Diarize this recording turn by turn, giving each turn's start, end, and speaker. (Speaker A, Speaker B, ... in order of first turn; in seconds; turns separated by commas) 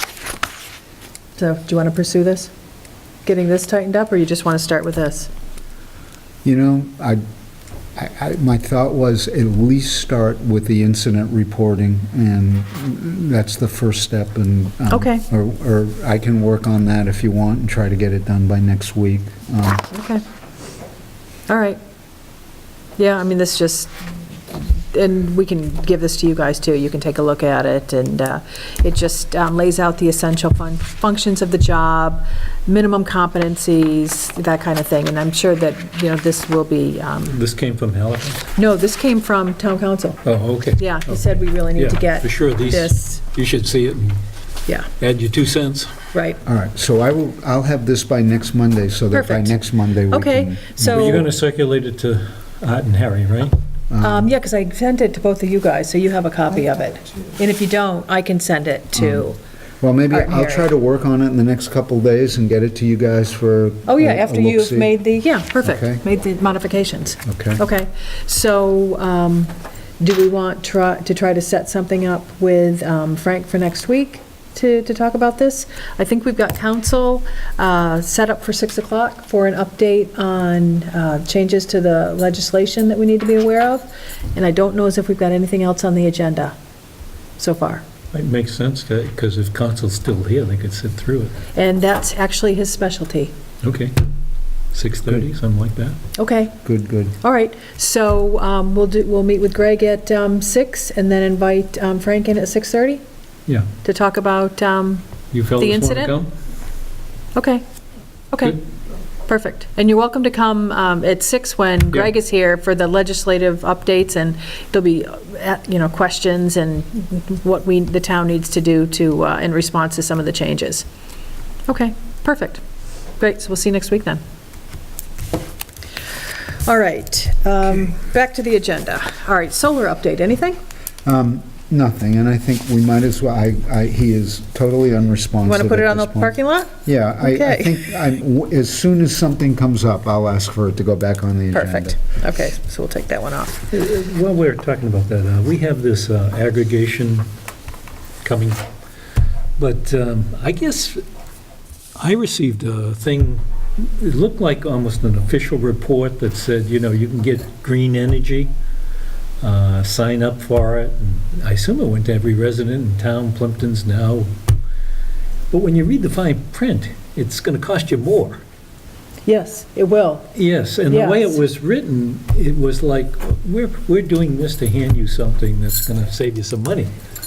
Speaker A: 1.4-2.5, Speaker A: 3.2-5.3, Speaker B: 6.4-7.2, Speaker B: 8.0-19.9, Speaker A: 14.9-15.2, Speaker A: 19.9-20.2, Speaker A: 21.5-21.8, Speaker A: 23.0-23.9, Speaker A: 24.5-37.3, Speaker C: 37.2-38.5, Speaker A: 38.5-40.2, Speaker C: 40.2-44.2, Speaker A: 40.8-43.2, Speaker C: 45.0-46.0, Speaker A: 46.1-46.4, Speaker B: 46.4-51.3, Speaker A: 49.1-49.5, Speaker A: 50.1-51.2, Speaker C: 50.8-53.5, Speaker B: 53.9-54.3, Speaker A: 54.0-59.4, Speaker B: 59.0-59.3, Speaker B: 59.8-64.9, Speaker A: 60.1-60.7, Speaker A: 63.9-86.5, Speaker B: 65.6-66.0, Speaker B: 67.2-67.6, Speaker A: 87.4-87.8, Speaker C: 88.1-91.4, Speaker A: 91.5-93.3, Speaker C: 93.6-94.0, Speaker C: 94.7-96.0, Speaker A: 96.2-96.6, Speaker B: 96.6-97.2, Speaker A: 97.2-103.0, Speaker A: 103.8-105.0, Speaker C: 105.3-106.3, Speaker A: 105.6-106.1, Speaker A: 107.3-107.6, Speaker A: 108.3-108.6, Speaker A: 109.2-120.8, Speaker A: 121.7-122.6, Speaker A: 123.2-124.2, Speaker A: 126.6-130.6, Speaker B: 131.0-142.0, Speaker A: 135.4-137.8, Speaker A: 141.5-143.6, Speaker C: 143.7-147.2, Speaker C: 148.2-148.6, Speaker C: 149.6-151.0, Speaker C: 152.0-158.5, Speaker C: 159.4-164.3, Speaker C: 165.5-168.4, Speaker A: 169.2-170.3, Speaker C: 170.3-176.9, Speaker A: 170.9-171.3